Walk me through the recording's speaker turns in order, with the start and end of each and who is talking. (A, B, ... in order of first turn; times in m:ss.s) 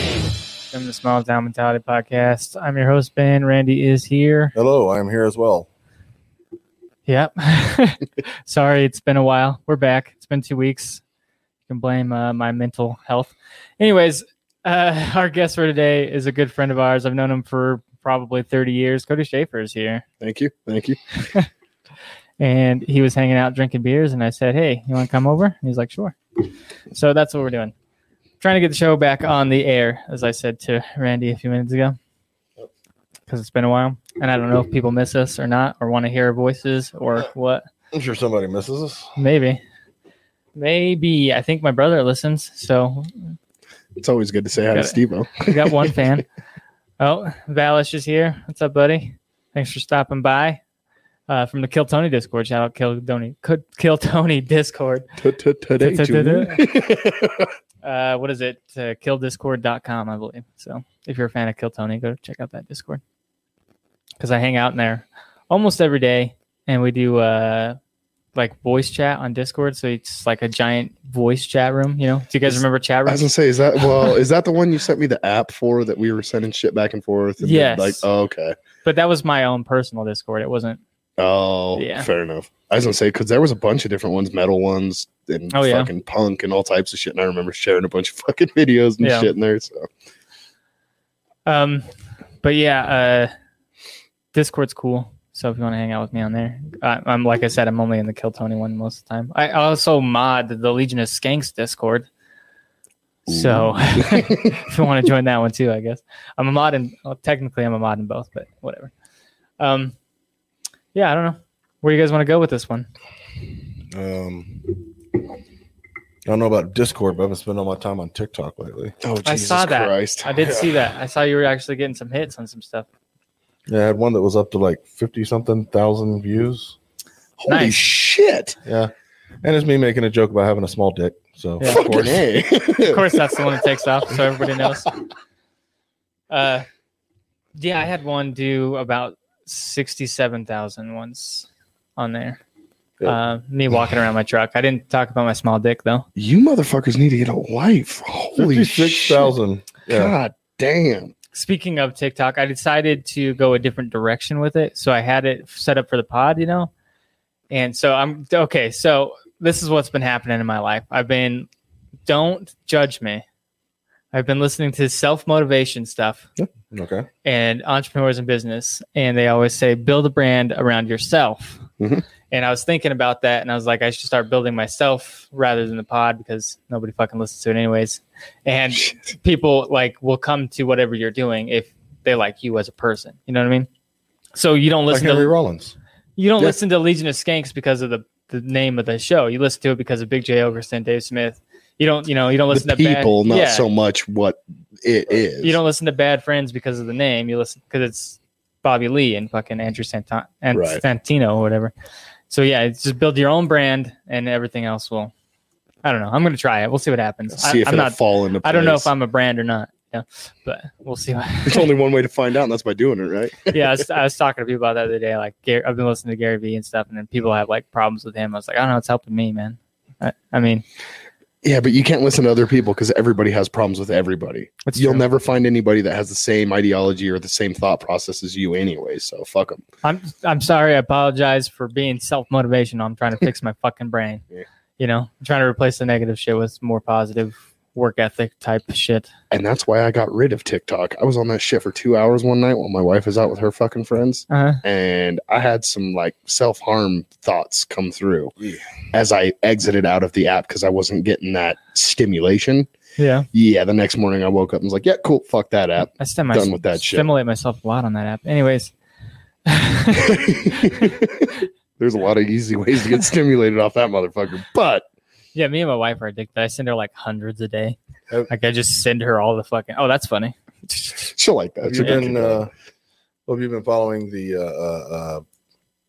0:00.7-0:04.5 A
0:04.6-0:05.7 B
0:07.1-0:11.0 A
0:11.7-0:20.0 A
0:20.2-0:21.0 C
0:22.4-0:26.2 A
0:26.9-0:27.7 A
0:28.4-0:32.0 A
0:33.3-0:37.7 A
0:37.9-0:39.1 B
0:39.2-0:39.6 A
0:40.6-0:43.3 A
0:44.0-0:46.1 C
0:44.7-0:46.2 A
0:47.0-0:50.6 A
0:51.3-0:55.1 A
0:55.2-0:57.5 C
0:55.8-0:56.6 A
0:57.8-1:03.0 A
1:04.2-1:07.8 A
1:08.4-1:13.3 A
1:12.5-1:18.6 C
1:13.8-1:14.1 A
1:17.4-1:18.0 A
1:18.8-1:20.8 A
1:21.2-1:29.9 C
1:21.8-1:22.1 A
1:25.5-1:25.9 A
1:29.0-1:29.3 A
1:31.5-1:31.9 A
1:32.4-1:33.3 A
1:34.3-1:42.1 A
1:43.3-1:48.9 A
1:43.3-1:44.6 C
1:49.6-1:50.0 A
1:50.9-1:52.9 A
1:53.9-1:54.8 B
1:56.3-1:59.0 B
1:59.0-2:00.3 C
1:59.2-2:02.9 A
2:03.7-2:06.8 B
2:07.4-2:08.6 C
2:07.5-2:07.8 A
2:08.7-2:08.9 B
2:09.4-2:12.2 B
2:11.6-2:11.9 A
2:11.6-2:14.7 C
2:12.8-2:14.9 A
2:16.3-2:16.7 A
2:17.6-2:22.4 A
2:23.0-2:26.1 A
2:26.2-2:29.3 C
2:28.4-2:30.2 B
2:29.9-2:31.1 C
2:31.3-2:36.7 A
2:37.5-2:41.5 A
2:42.1-2:43.2 A
2:44.1-2:46.3 A
2:46.4-2:47.1 B
2:47.2-2:51.6 A
2:51.8-2:52.0 C
2:52.3-3:03.7 A
3:04.4-3:05.3 A
3:04.9-3:05.8 B
3:06.2-3:13.7 A
3:12.5-3:15.6 C
3:15.4-3:21.7 A
3:20.5-3:20.8 C
3:22.3-3:25.1 A
3:25.8-3:31.7 A
3:27.4-3:28.9 C
3:31.4-3:33.8 C
3:33.5-3:40.6 A
3:41.4-3:49.6 C
3:44.7-3:45.0 A
3:49.8-3:54.2 A
3:54.8-3:59.1 A
3:59.3-4:08.3 C
4:04.3-4:04.6 A
4:08.9-4:12.7 C
4:13.0-4:13.3 A
4:13.3-4:17.1 C
4:16.0-4:18.7 A
4:19.5-4:20.9 A
4:20.0-4:24.9 C
4:25.4-4:27.8 A
4:28.3-4:31.0 A
4:31.0-4:32.5 C
4:31.6-4:32.5 B
4:33.3-4:35.2 B